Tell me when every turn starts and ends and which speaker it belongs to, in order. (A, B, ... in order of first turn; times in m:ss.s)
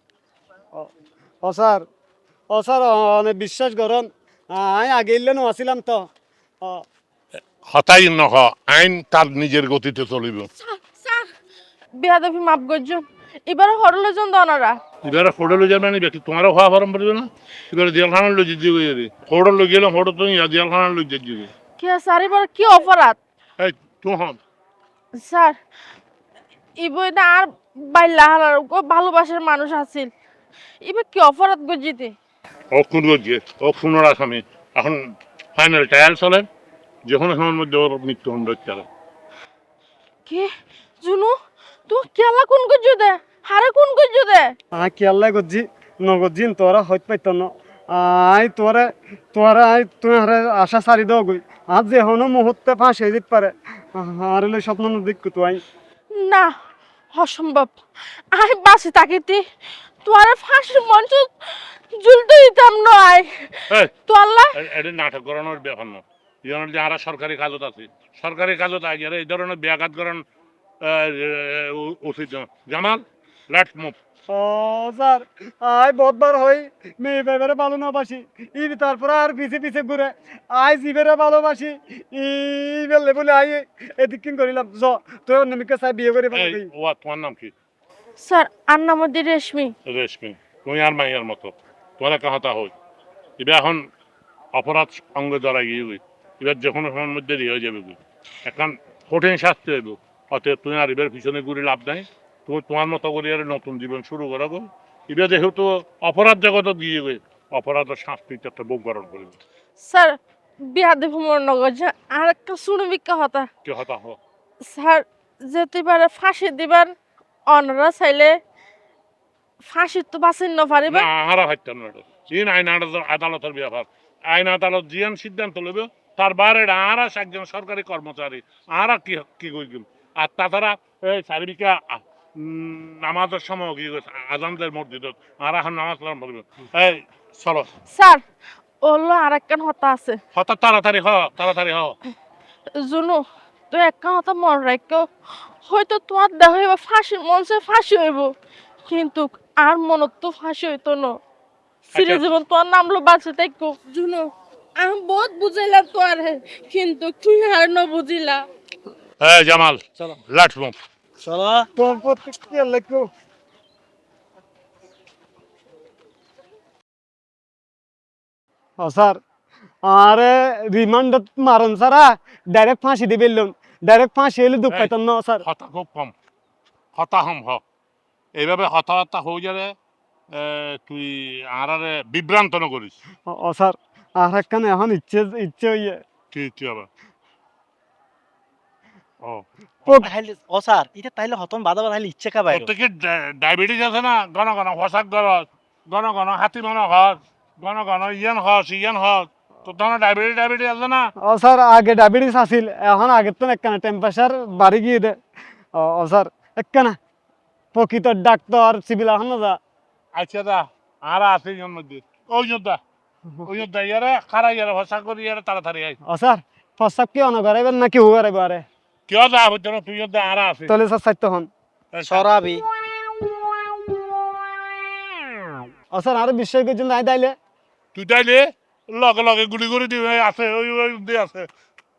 0:01.4-0:01.8 A
0:02.5-0:06.1 A
0:07.6-0:10.5 B
0:10.6-0:11.3 C
0:11.9-0:14.8 C
0:15.0-0:21.5 B
0:21.8-0:23.2 C
0:23.6-0:24.4 B
0:25.2-0:25.6 C
0:26.8-0:30.1 C
0:30.8-0:32.1 C
0:32.7-0:35.0 B
0:35.6-0:36.4 B
0:37.1-0:38.8 B
0:41.0-0:41.3 C
0:41.9-0:44.5 C
0:44.7-0:55.6 A
0:56.1-0:56.5 C
0:57.1-0:59.4 C
1:00.0-1:04.5 C
1:04.5-1:10.2 B
1:10.8-1:13.9 B
1:14.3-1:26.7 A
1:26.3-1:27.5 B
1:28.2-1:29.7 C
1:29.8-1:32.7 B
1:33.4-1:33.9 B
1:34.5-1:49.4 B
1:49.8-1:53.5 C
1:53.6-1:54.2 B
1:54.6-1:56.9 C
1:57.5-1:58.4 C
1:59.7-2:01.1 C
2:00.9-2:17.7 B
2:17.9-2:18.2 C
2:18.8-2:20.2 C
2:20.3-2:22.0 B
2:22.7-2:25.1 C
2:25.6-2:28.3 C
2:28.8-2:31.2 C
2:31.9-2:32.2 B
2:31.9-2:38.4 C
2:39.2-2:40.8 B
2:41.2-2:41.7 D
2:41.8-2:43.1 A
2:48.8-2:49.2 A
2:49.8-2:55.4 A
2:55.4-2:56.1 B
2:56.9-2:57.6 B
2:58.3-2:59.7 B
3:00.3-3:03.0 B
3:03.3-3:06.0 A
3:06.3-3:06.9 B
3:10.0-3:12.7 D
3:12.5-3:21.1 B
3:21.2-3:25.2 A
3:25.7-3:27.0 A
3:27.7-3:29.6 A
3:30.1-3:32.8 B
3:33.4-3:36.0 B
3:36.0-3:38.6 A
3:39.1-3:40.7 B
3:40.7-3:41.5 A
3:41.9-3:42.3 B
3:42.0-3:42.6 D
3:45.9-3:47.3 A
3:47.9-3:51.5 B